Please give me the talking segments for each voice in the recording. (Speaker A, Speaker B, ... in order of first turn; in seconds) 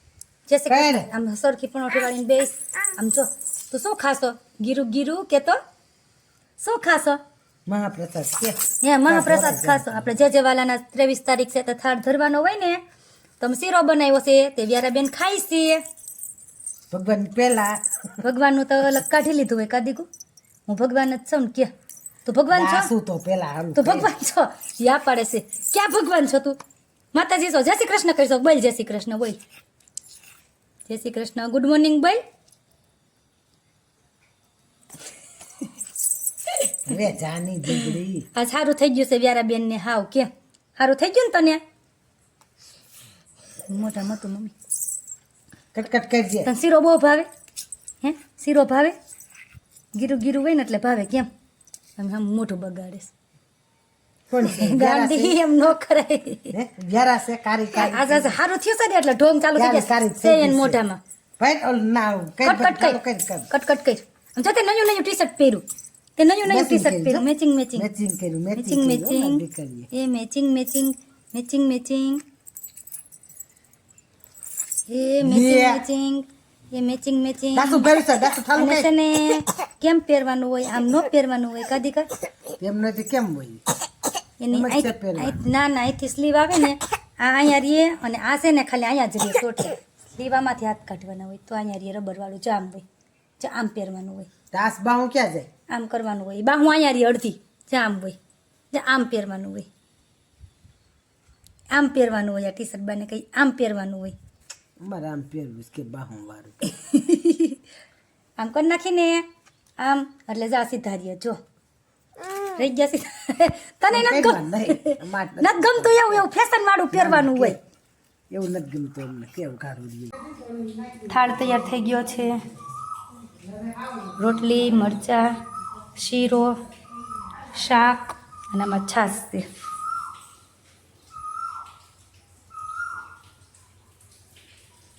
Speaker A: 0.5-5.6, 6.6-7.2, 8.8-12.8, 13.4-15.8, 18.2-20.1, 20.7-21.7, 22.2-22.9, 23.8-26.6, 27.1-29.4, 30.9-32.2, 37.7-41.6, 43.7-44.5, 46.5-47.3, 48.0-48.9, 50.0-51.3, 52.0-53.1, 54.4-56.5, 57.7-61.0, 62.4-65.6, 66.2-67.9, 68.5-72.2, 74.9-77.9, 78.5-82.1, 84.4-92.8, 93.4-94.3, 95.7-98.2, 98.7-99.7, 101.7-104.1, 106.7-107.6, 108.4-109.2, 109.8-111.4, 112.5-117.6, 121.1-122.4, 124.2-125.3, 126.0-126.5, 127.5-129.4
Speaker B: 0.7-1.1, 7.7-10.1, 16.9-17.8, 22.5-24.1, 36.9-38.3, 45.7-46.5, 54.3-55.4, 56.5-58.4, 59.5-60.8, 61.4-63.5, 66.5-69.9, 75.2-75.8, 77.5-78.9, 82.6-83.6, 84.5-85.4, 94.5-95.5, 104.8-106.7, 113.9-116.2, 116.9-117.6, 118.3-120.1